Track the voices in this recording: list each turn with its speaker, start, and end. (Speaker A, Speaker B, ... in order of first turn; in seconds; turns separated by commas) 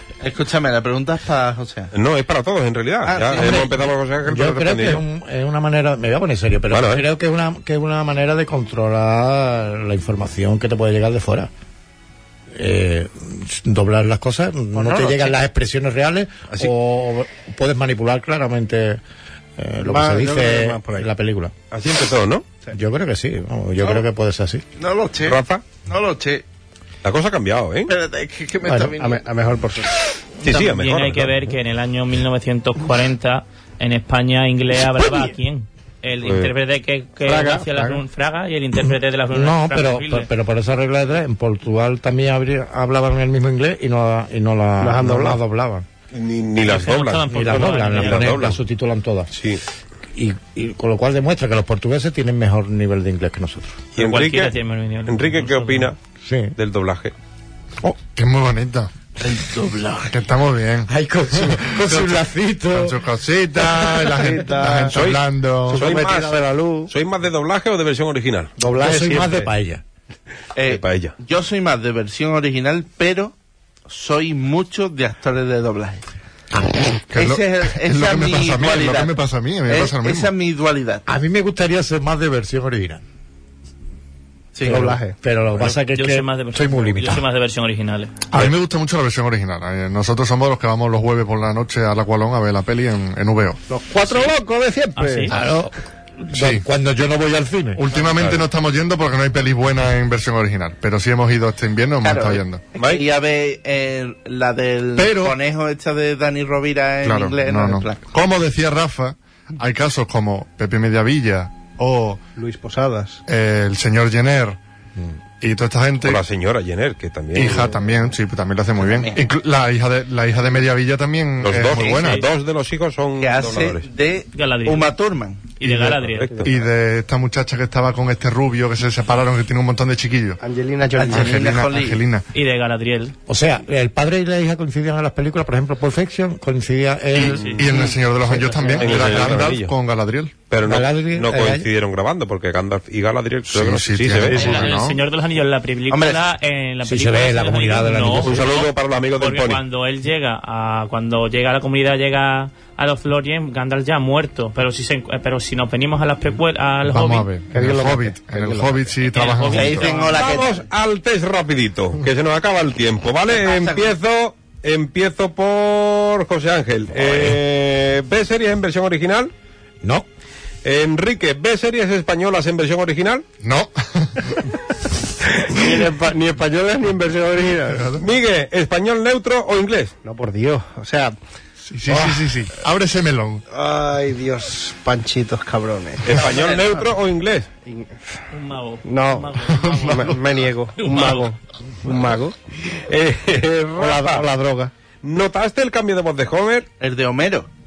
Speaker A: 0.2-1.9, Speaker B: 1.9-5.0, Speaker A: 3.0-3.7, Speaker C: 3.4-11.5, Speaker B: 6.7-7.0, Speaker C: 12.5-19.0, Speaker A: 14.8-15.3, Speaker C: 19.6-21.5, Speaker D: 19.9-21.1, Speaker B: 21.7-22.4, Speaker C: 22.7-24.6, Speaker A: 24.8-26.4, Speaker B: 25.2-25.6, Speaker B: 27.0-27.9, Speaker A: 27.9-29.2, Speaker C: 28.7-28.9, Speaker D: 29.0-29.9, Speaker B: 30.4-31.3, Speaker E: 30.4-40.3, Speaker B: 36.2-36.5, Speaker D: 37.2-38.0, Speaker C: 39.3-45.9, Speaker D: 44.8-45.4, Speaker B: 46.1-48.6, Speaker E: 46.7-48.5, Speaker C: 47.3-49.3, Speaker B: 49.3-49.6, Speaker C: 50.1-53.8, Speaker B: 54.0-56.0, Speaker E: 54.0-55.9, Speaker C: 56.2-56.5, Speaker B: 56.6-57.1, Speaker F: 57.9-58.9, Speaker D: 59.4-59.8, Speaker F: 60.1-66.0, Speaker C: 60.9-63.0, Speaker D: 64.1-65.0, Speaker B: 64.9-68.5, Speaker D: 65.7-66.9, Speaker C: 68.6-69.8, Speaker D: 68.6-69.5, Speaker A: 70.5-73.3, Speaker B: 70.7-71.1, Speaker A: 73.9-76.0, Speaker F: 77.1-80.3, Speaker A: 77.1-81.0, Speaker C: 81.1-83.0, Speaker A: 84.6-85.1, Speaker D: 84.6-85.1, Speaker C: 84.6-87.2, Speaker E: 85.8-88.1, Speaker F: 88.3-93.6, Speaker D: 93.7-95.3, Speaker E: 95.0-95.6, Speaker C: 95.3-95.7, Speaker C: 96.2-97.8, Speaker F: 96.3-96.7, Speaker F: 97.8-102.6, Speaker B: 98.0-98.4, Speaker A: 102.0-108.0, Speaker B: 102.8-103.0, Speaker F: 105.0-105.4, Speaker F: 107.0-112.2, Speaker D: 112.4-113.2, Speaker F: 113.3-114.6, Speaker F: 115.4-116.2, Speaker B: 116.0-117.6, Speaker F: 117.3-122.2, Speaker A: 118.8-119.2, Speaker B: 121.4-123.9, Speaker E: 121.6-122.3, Speaker A: 123.2-125.6, Speaker E: 124.3-124.9, Speaker E: 125.6-126.4, Speaker B: 126.1-126.5, Speaker F: 126.4-130.4, Speaker D: 130.4-131.4, Speaker A: 130.9-132.0, Speaker F: 131.1-132.2, Speaker E: 132.3-133.1, Speaker C: 133.3-137.6, Speaker F: 137.1-140.3, Speaker E: 137.3-137.8, Speaker C: 138.3-139.1, Speaker B: 138.8-139.7, Speaker B: 140.5-144.6, Speaker C: 140.6-141.7, Speaker F: 143.5-145.0, Speaker E: 144.3-157.4, Speaker A: 145.9-146.2, Speaker C: 146.8-148.4, Speaker B: 148.2-149.6, Speaker F: 156.9-159.9, Speaker D: 157.5-158.9, Speaker E: 159.0-160.2, Speaker A: 159.5-160.7, Speaker B: 160.1-169.3, Speaker A: 163.3-163.9, Speaker C: 167.0-167.3, Speaker B: 170.6-173.2, Speaker F: 173.4-174.4, Speaker D: 175.4-177.9, Speaker F: 177.7-178.1, Speaker B: 178.0-179.9, Speaker D: 180.1-181.1, Speaker F: 181.6-183.4, Speaker D: 183.5-186.9, Speaker B: 186.0-187.5, Speaker D: 187.6-188.2, Speaker E: 188.3-190.2, Speaker D: 188.8-192.3, Speaker F: 189.6-190.2, Speaker E: 190.8-191.3, Speaker B: 192.9-194.2, Speaker D: 193.8-194.7, Speaker B: 195.0-196.7, Speaker A: 196.8-197.5